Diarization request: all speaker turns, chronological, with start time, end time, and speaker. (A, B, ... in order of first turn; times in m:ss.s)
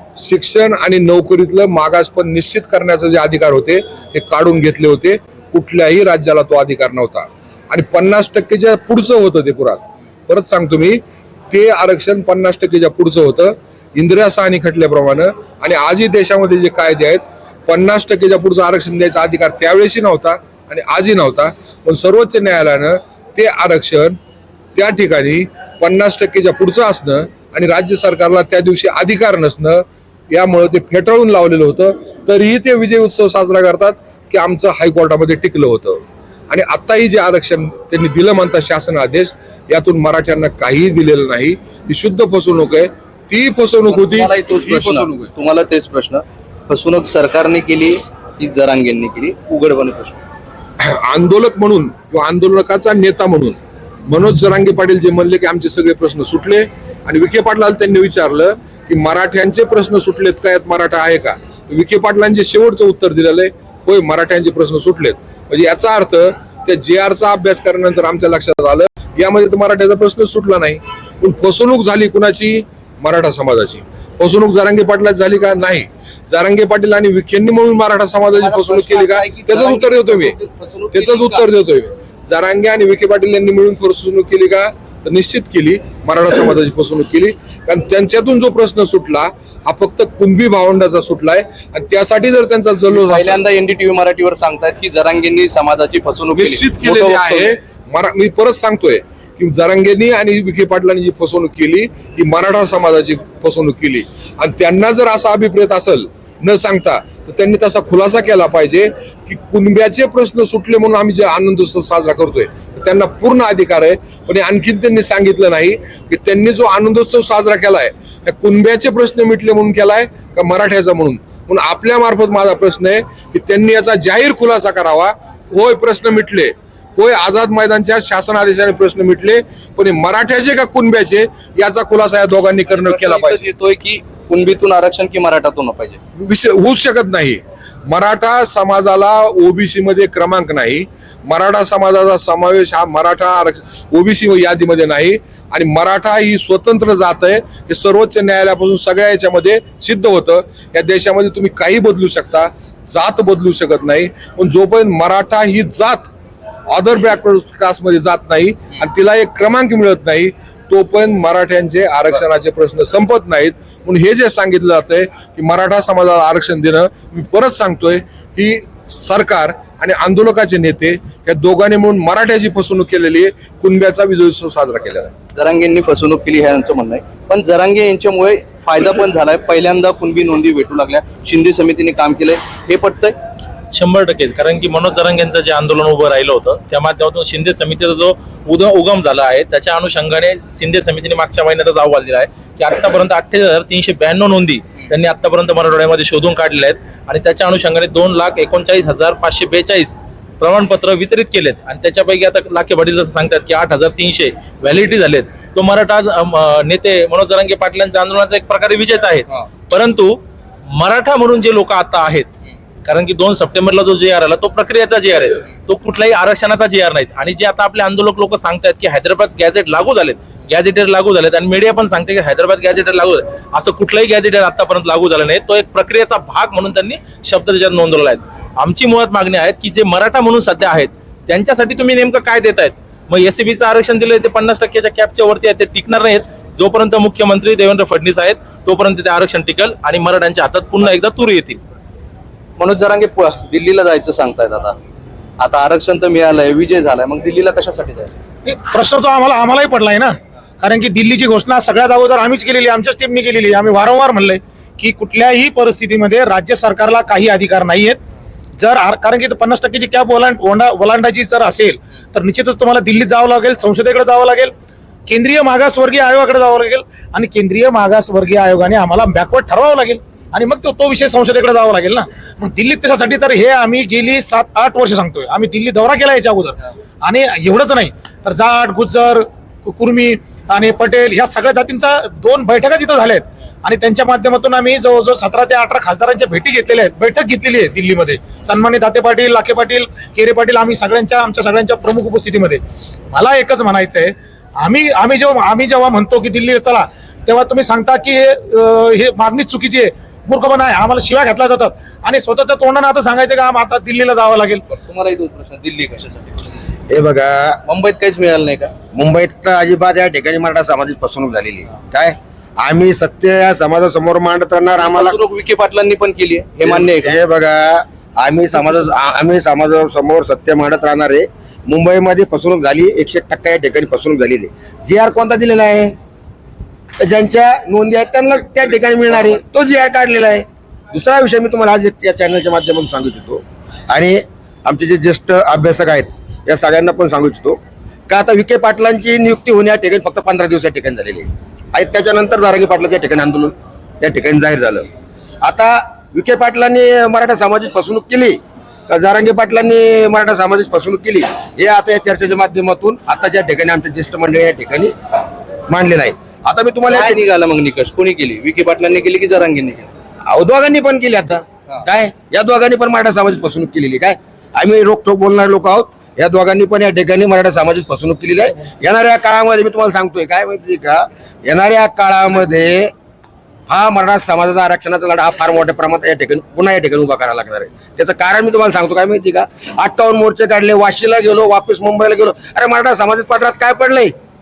0:00.2-0:24.2 A
0:24.8-0:45.3 A
0:43.9-0:50.2 B
0:50.8-1:20.4 A
1:18.4-1:21.4 B
1:20.9-1:33.4 A
1:32.9-1:37.5 B
1:36.3-2:13.4 A
2:12.7-2:16.0 B
2:16.2-2:36.1 A
2:36.7-2:55.1 A
2:55.4-3:03.2 B
3:03.7-3:30.2 C
3:30.7-3:32.3 C
3:32.8-4:01.6 C
4:02.6-4:04.8 B
4:05.4-4:08.1 B
4:08.4-4:18.0 D
4:18.6-4:24.5 D
4:25.1-4:52.6 D
4:53.1-5:04.6 D
5:04.7-5:06.5 B
5:06.9-5:07.6 E
5:07.7-5:08.7 B
5:09.0-5:15.2 E
5:14.8-5:17.2 B
5:16.6-5:26.0 E
5:27.0-5:44.9 E
5:45.4-5:54.9 E
5:55.7-5:57.2 E
5:56.9-5:59.9 B
6:00.3-6:12.9 E
6:13.7-6:24.1 E